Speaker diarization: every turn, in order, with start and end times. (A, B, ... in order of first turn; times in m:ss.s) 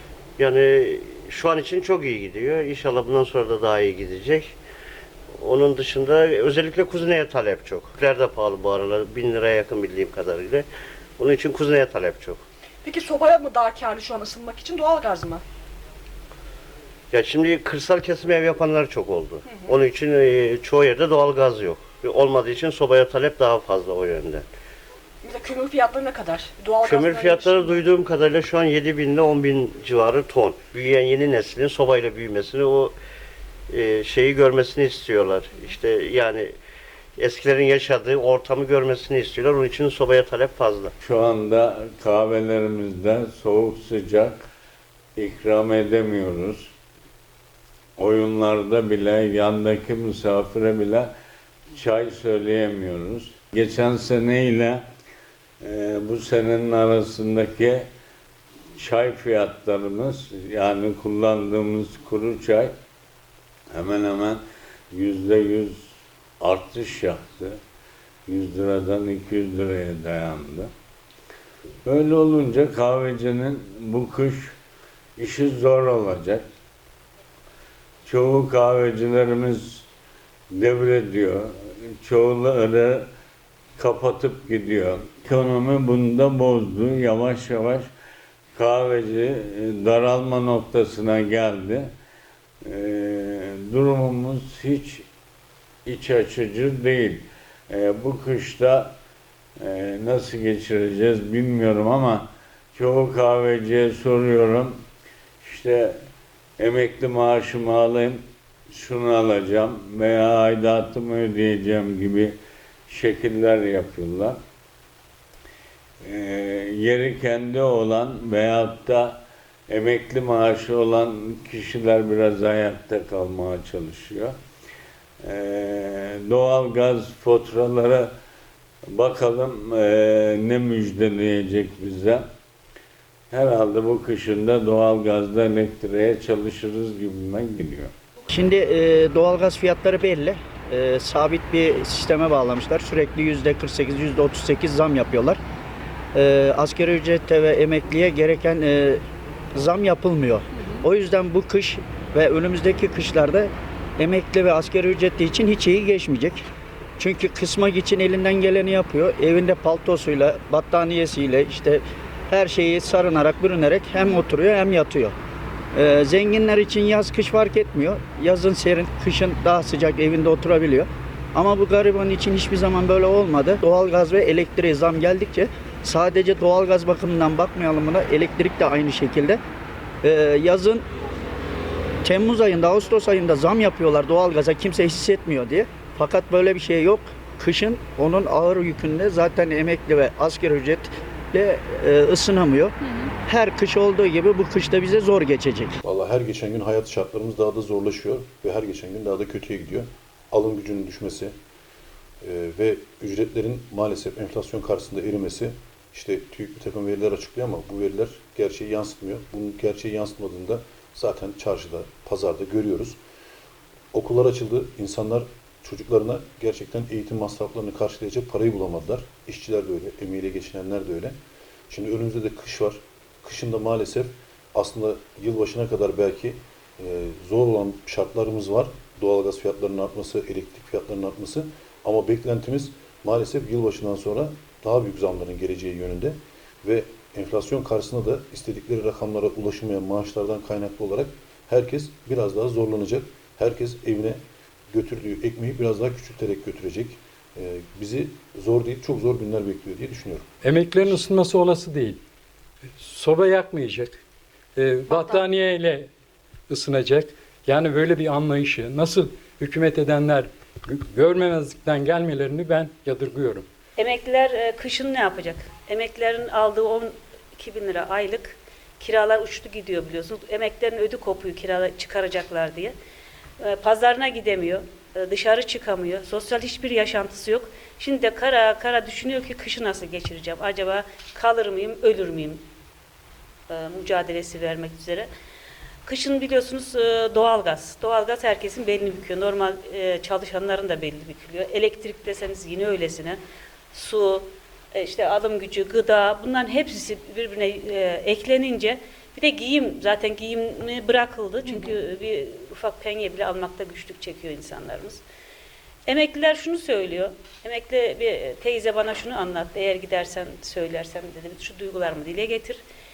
0:00.4-0:04.5 A
0:05.4-0:10.6 A
0:11.2-0:12.4 A
0:12.8-0:15.4 B
0:17.1-0:24.4 A
0:19.4-0:19.7 B
0:25.2-0:27.9 B
0:26.8-0:32.9 A
0:33.7-0:36.5 A
0:37.2-0:40.9 A
0:41.0-0:44.5 C
0:45.2-0:46.7 C
0:48.0-0:51.1 C
0:51.7-0:54.8 C
0:55.6-0:57.9 C
0:58.8-1:02.7 C
1:03.7-1:05.8 C
1:06.4-1:07.6 C
1:08.3-1:10.7 C
1:11.8-1:14.6 C
1:15.2-1:16.4 C
1:18.0-1:19.8 C
1:20.5-1:23.1 C
1:23.8-1:27.9 C
1:28.5-1:31.9 C
1:32.6-1:35.0 C
1:35.8-1:38.9 C
1:39.6-1:44.8 C
1:45.4-1:45.9 C
1:46.6-1:52.3 C
1:52.9-1:54.4 C
1:56.0-2:04.3 C
2:05.2-2:08.1 C
2:08.9-2:12.2 C
2:13.3-2:17.9 C
2:18.3-2:25.4 D
2:26.1-2:29.0 D
2:29.5-2:36.4 D
2:37.0-2:45.1 D
2:45.7-2:59.4 D
3:00.0-3:00.8 D
3:02.0-3:12.7 D
3:13.2-3:15.7 D
3:15.8-3:21.3 E
3:22.2-3:33.0 E
3:33.9-3:41.2 E
3:41.7-4:04.2 E
4:04.7-4:10.3 E
4:10.4-4:12.0 F
4:12.8-4:14.0 F
4:14.6-4:15.9 F
4:14.9-4:15.2 B
4:16.5-4:23.5 F
4:23.8-4:32.7 G
4:33.4-4:42.4 G
4:43.5-4:45.1 G
4:45.8-4:53.2 G
4:53.7-5:05.0 G
5:05.8-5:12.6 G